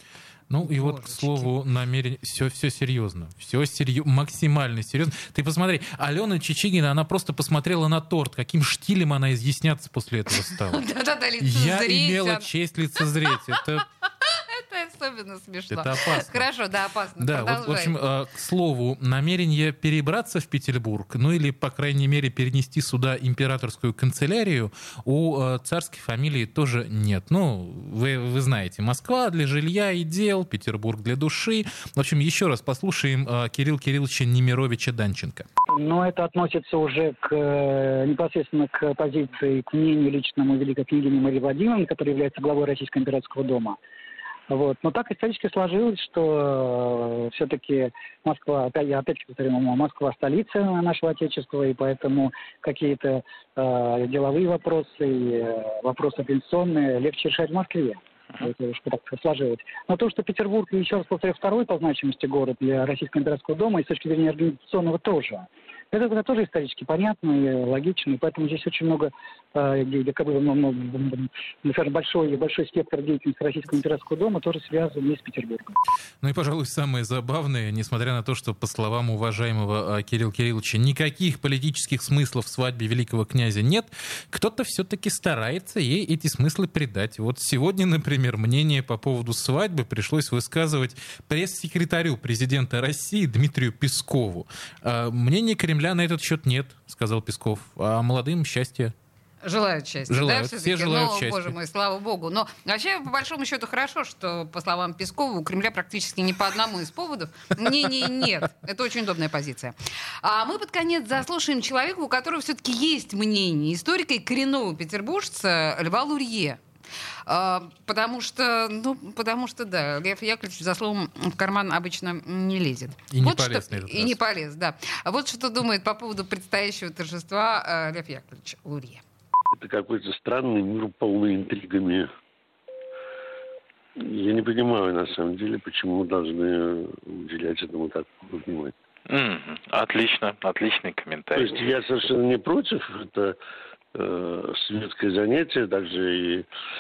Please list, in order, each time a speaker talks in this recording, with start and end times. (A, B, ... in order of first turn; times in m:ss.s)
0:00.5-0:10.8 A
0:00.6-0:01.5 B
0:10.4-0:12.5 B
0:11.4-0:13.9 A
0:13.3-0:18.0 B
0:15.7-0:16.4 A
0:17.2-0:35.5 A
0:35.7-0:43.8 C
0:44.5-1:15.8 C
1:16.2-1:38.9 A
1:39.4-1:56.6 B
1:40.1-1:41.5 A
1:57.3-2:09.0 B
2:03.1-2:04.2 A
2:09.6-2:12.1 D
2:14.0-2:18.8 D
2:19.1-2:21.7 E
2:21.3-2:23.4 D
2:24.0-2:26.5 D